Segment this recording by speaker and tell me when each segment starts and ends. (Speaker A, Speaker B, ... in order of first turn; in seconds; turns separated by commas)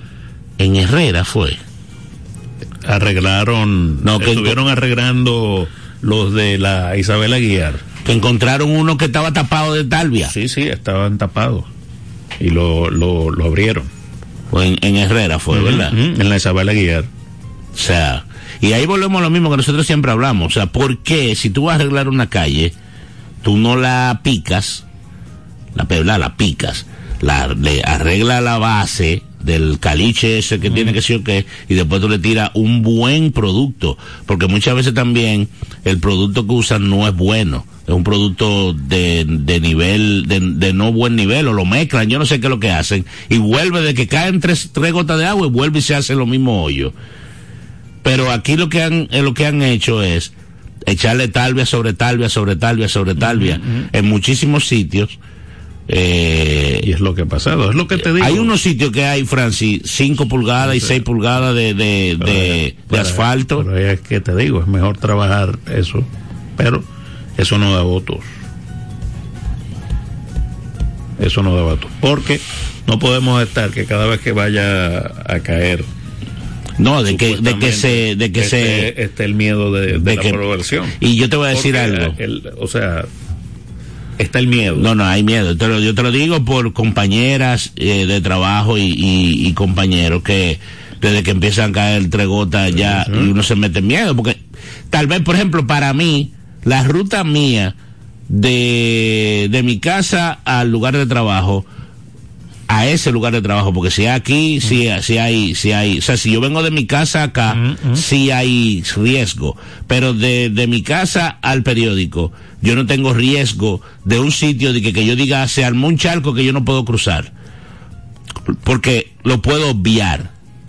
Speaker A: 0.6-1.6, Speaker B: 2.9-7.8, Speaker A: 4.0-4.6, Speaker A: 8.1-10.3, Speaker B: 10.3-11.7, Speaker B: 12.4-13.9, Speaker A: 14.5-15.9, Speaker B: 15.5-17.1, Speaker A: 17.8-22.7, Speaker A: 23.4-24.8, Speaker A: 25.8-46.9, Speaker B: 30.7-30.9, Speaker A: 48.0-50.3, Speaker A: 50.9-55.2, Speaker B: 53.2-53.9, Speaker A: 55.9-56.9, Speaker B: 56.8-58.5, Speaker A: 58.0-63.7, Speaker B: 60.6-61.0, Speaker B: 62.2-66.9, Speaker B: 67.4-68.3, Speaker B: 71.2-75.9, Speaker A: 76.8-78.9, Speaker B: 77.0-81.0, Speaker A: 79.9-80.4, Speaker A: 81.0-82.2, Speaker B: 81.5-83.1, Speaker B: 84.2-84.9, Speaker A: 84.8-94.4, Speaker B: 92.7-93.3, Speaker A: 94.9-97.8, Speaker A: 98.3-101.7, Speaker A: 102.7-117.3, Speaker B: 107.5-108.0, Speaker A: 118.6-120.3